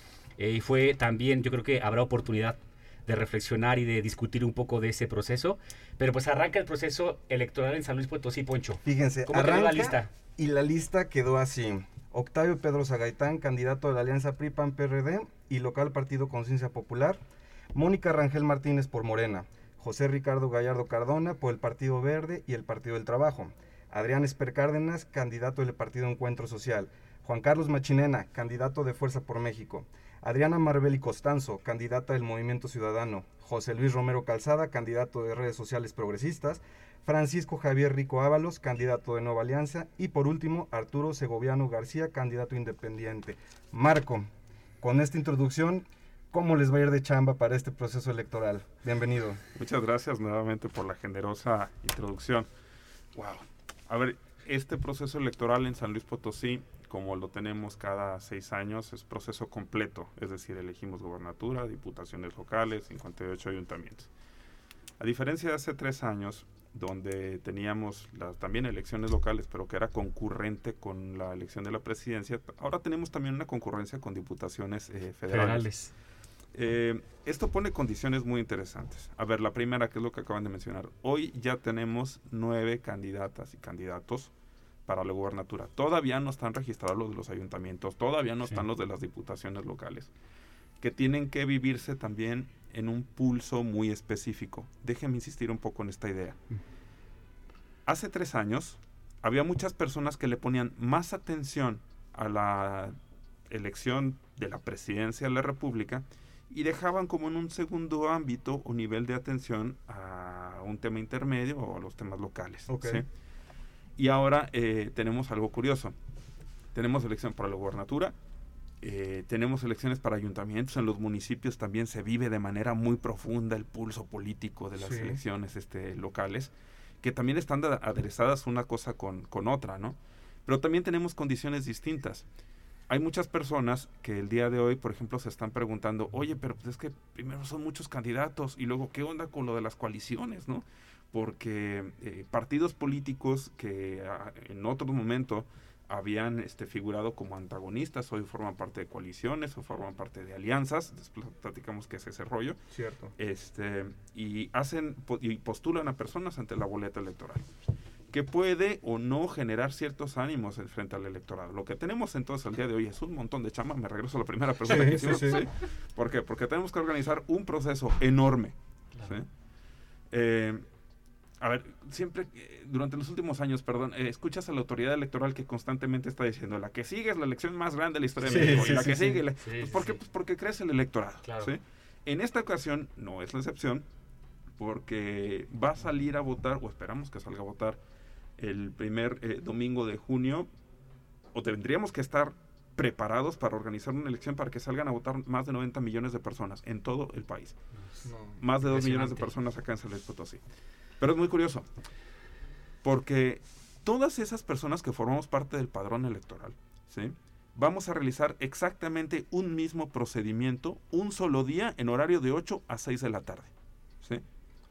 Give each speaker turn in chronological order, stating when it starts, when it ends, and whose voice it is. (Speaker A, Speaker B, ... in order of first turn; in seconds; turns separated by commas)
Speaker A: 0.4-10.1, Speaker B: 8.8-17.2, Speaker B: 17.7-49.4, Speaker C: 49.6-52.5, Speaker C: 53.1-64.1, Speaker C: 65.0-75.7, Speaker A: 75.3-75.9, Speaker C: 76.5-84.3, Speaker C: 84.9-90.1, Speaker C: 90.8-96.4, Speaker C: 97.9-103.0, Speaker C: 103.5-113.1, Speaker B: 112.7-113.0, Speaker C: 114.0-116.0, Speaker C: 116.8-118.1, Speaker C: 118.8-126.5, Speaker B: 124.8-125.2, Speaker C: 127.0-132.3, Speaker C: 132.9-152.6, Speaker B: 152.7-153.1, Speaker C: 153.2-157.4, Speaker C: 158.1-169.3, Speaker B: 164.6-165.4, Speaker C: 170.1-170.6, Speaker C: 171.4-183.8, Speaker B: 178.2-179.2, Speaker A: 178.2-180.0, Speaker A: 181.2-181.5, Speaker C: 184.6-187.8, Speaker C: 188.4-190.5, Speaker C: 191.3-197.6, Speaker B: 198.1-198.4, Speaker C: 198.4-200.4, Speaker A: 198.6-199.3, Speaker C: 201.0-201.7, Speaker C: 202.8-213.5